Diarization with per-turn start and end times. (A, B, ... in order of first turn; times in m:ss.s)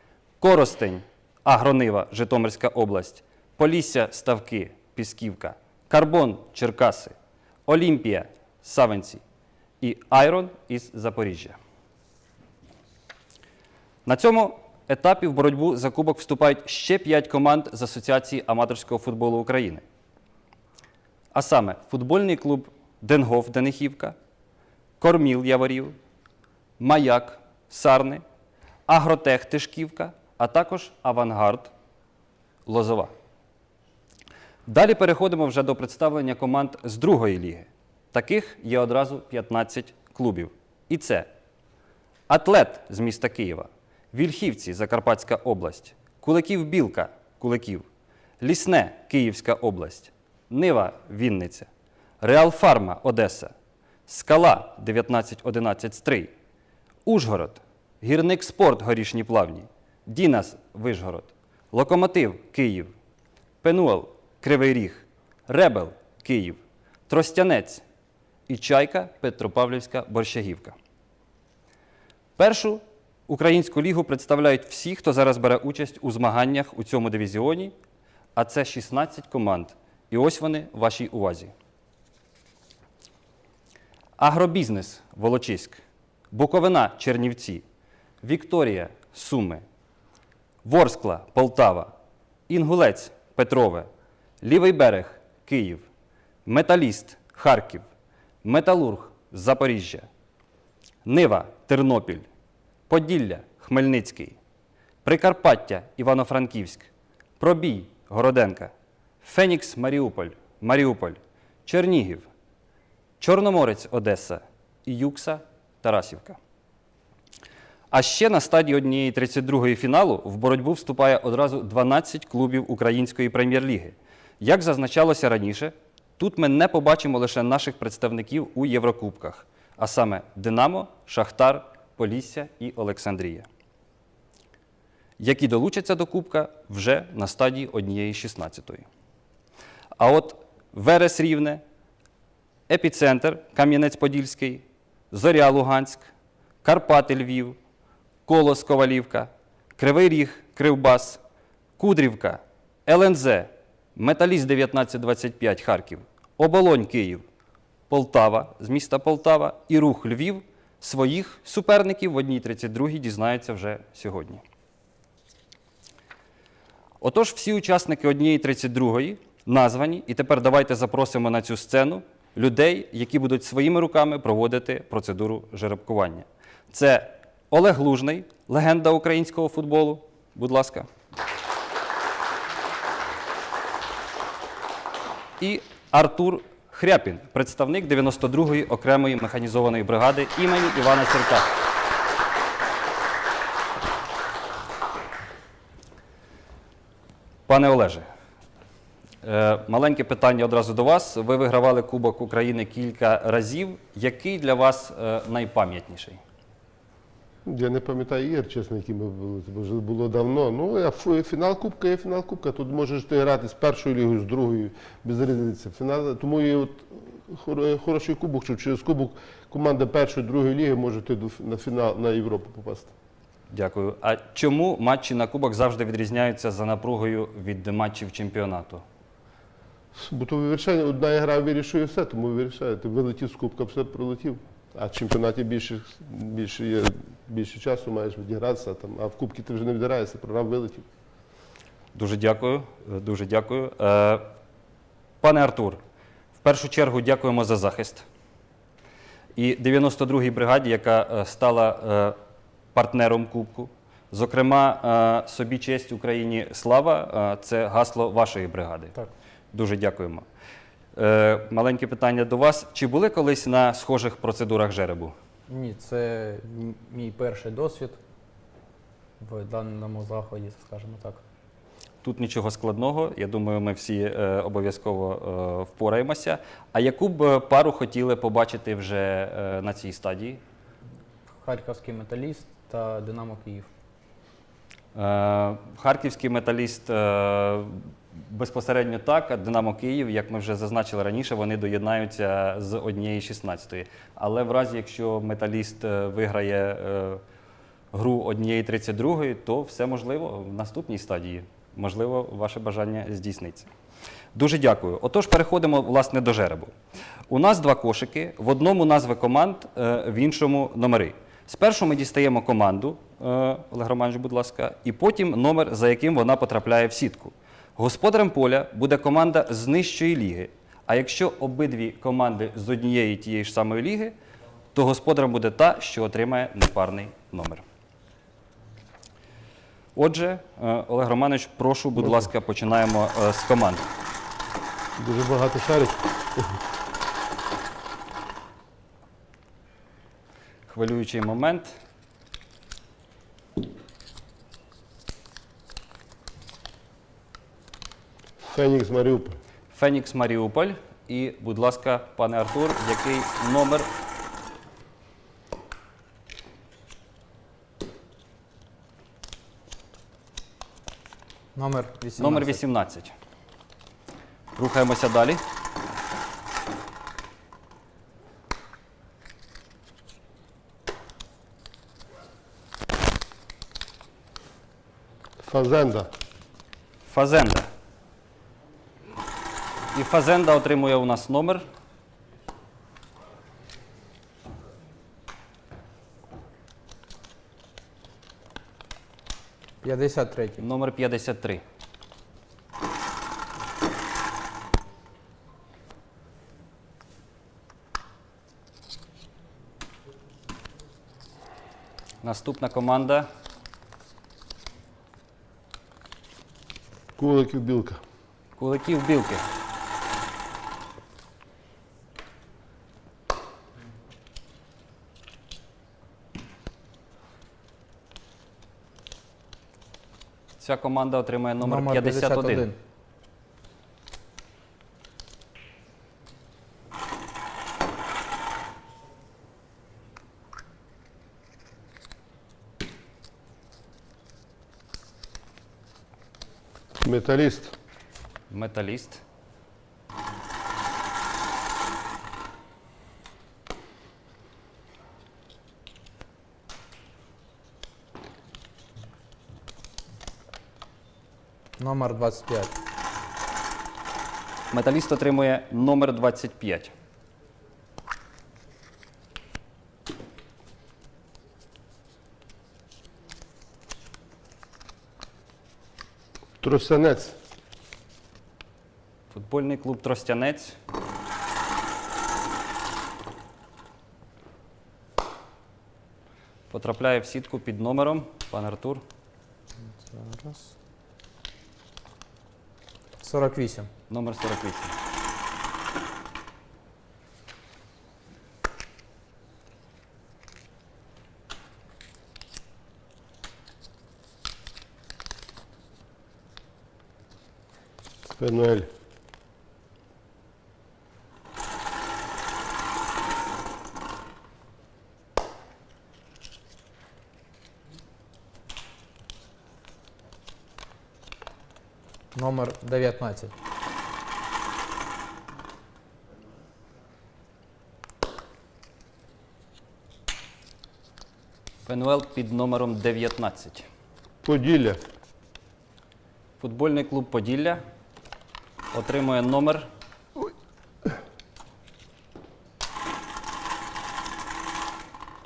0:00.4-0:07.1 A
0:07.7-0:09.2 A
0:09.8-0:11.6 A
0:14.0-0:19.8 A
0:21.3-0:24.2 A
0:25.0-0:26.0 A
0:26.8-0:28.2 A
0:28.9-0:31.7 A
0:32.7-0:33.1 A
0:34.7-0:41.3 A
0:42.3-0:47.8 A
0:48.4-0:51.7 A
0:52.2-0:53.5 A
0:54.1-0:56.3 A
0:57.1-1:02.9 A
1:03.6-1:07.8 A
1:08.5-1:10.8 A
1:12.4-1:17.7 A
1:18.4-1:21.5 A
1:24.2-1:27.6 A
1:28.2-1:29.6 A
1:30.6-1:31.9 A
1:32.5-1:33.9 A
1:34.4-1:35.8 A
1:36.5-1:37.8 A
1:38.4-1:40.1 A
1:41.0-1:42.3 A
1:42.9-1:44.4 A
1:45.0-1:52.3 A
1:53.2-1:56.4 A
1:57.9-2:13.5 A
2:15.2-2:18.9 A
2:20.0-2:21.6 A
2:22.7-2:26.1 A
2:26.6-2:27.6 A
2:28.3-2:31.2 A
2:31.8-2:37.2 A
2:37.9-2:44.4 A
2:47.0-3:00.9 A
3:05.4-3:11.6 A
3:17.5-3:18.1 A
3:19.2-3:26.2 A
3:27.5-3:42.9 B
3:43.5-3:48.8 A
3:49.9-4:00.9 B
4:01.9-4:04.3 A
4:05.2-4:05.8 A
4:06.4-4:08.0 A
4:09.4-4:12.2 A
4:12.7-4:19.0 A
4:19.5-4:20.2 A
4:21.0-4:25.2 A
4:25.5-4:28.0 C
4:29.2-4:31.2 C
4:32.0-4:40.4 A
4:41.3-4:43.7 C
4:45.0-4:57.2 A
4:57.9-5:03.7 A
5:04.3-5:06.7 A
5:07.3-5:24.2 A
5:24.8-5:27.6 A
5:30.0-5:33.9 A
5:35.0-5:36.6 B
5:40.7-5:41.8 A
5:48.4-5:49.4 B
5:49.7-5:53.9 A
6:01.6-6:02.6 C
6:02.2-6:03.1 A
6:04.6-6:05.4 A
6:15.4-6:16.1 B
6:17.0-6:17.7 A
6:19.9-6:21.7 A
6:29.8-6:30.6 C
6:30.6-6:31.6 A
6:42.2-6:43.3 A
6:47.2-6:48.0 B
6:48.6-6:49.4 A
7:00.6-7:02.7 A
7:01.6-7:02.8 C
7:17.0-7:17.7 B
7:18.5-7:19.2 A
7:31.8-7:32.7 C
7:34.7-7:36.9 A
7:46.6-7:47.4 B
7:49.3-7:50.8 A
7:56.7-7:59.0 A
8:00.0-8:00.7 C
8:03.2-8:03.9 C
8:04.1-8:05.0 A
8:18.4-8:18.9 B
8:32.3-8:33.5 C
8:41.9-8:43.9 A
8:44.4-8:45.0 B
8:46.6-8:47.8 A
8:48.9-8:49.9 A